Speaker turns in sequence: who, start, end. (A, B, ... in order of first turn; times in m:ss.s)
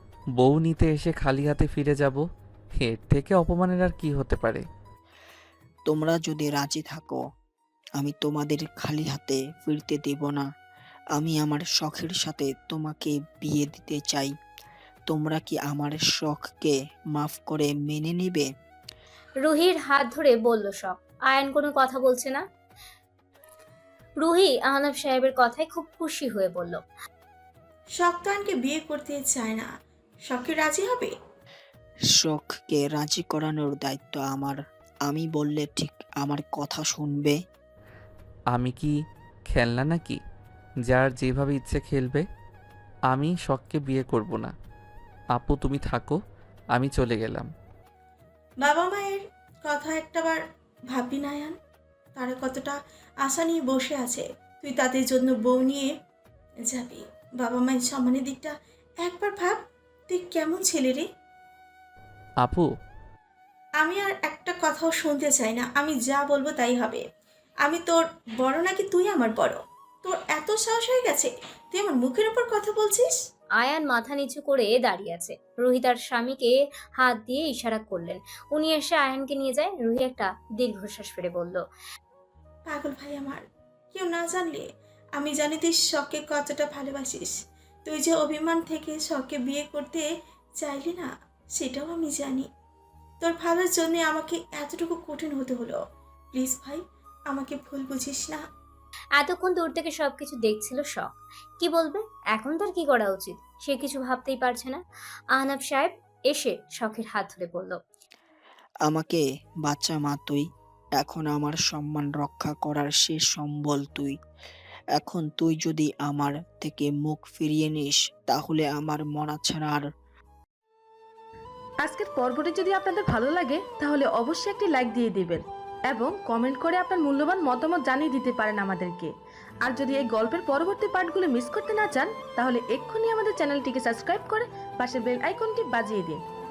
0:00.4-0:02.2 A
0:02.8-0:04.6 A
0:05.9-0:07.2 B
0:08.0-0:10.4 B
0:11.2-0:14.3 B
0:15.1-0:18.4 B
0:19.4-0:22.4 C
0:24.2-0:26.8 C
0:28.0-0:29.7 D
0:30.3-0:31.1 D
0:32.2-0:34.6 B
0:35.1-0:37.4 B
0:38.5-0:38.9 A
0:39.5-0:40.2 A
0:40.8-0:42.2 A
0:43.1-0:44.5 A
0:45.3-0:46.2 A
0:46.7-0:47.5 A
0:48.6-0:51.5 D
0:52.2-0:55.9 D
0:56.7-1:01.0 D
1:03.8-1:07.0 D
1:07.6-1:13.1 D
1:13.6-1:21.6 C
1:22.7-1:23.4 D
1:23.9-1:27.3 D
1:27.8-1:30.1 D
1:30.6-1:32.5 D
1:33.2-1:35.8 D
1:36.3-1:38.4 D
1:39.2-1:44.8 C
1:45.4-1:47.8 C
1:48.9-1:50.4 B
1:51.0-1:54.1 B
1:55.0-1:59.8 B
2:01.8-2:05.4 E
2:05.9-2:09.1 E
2:09.6-2:16.2 E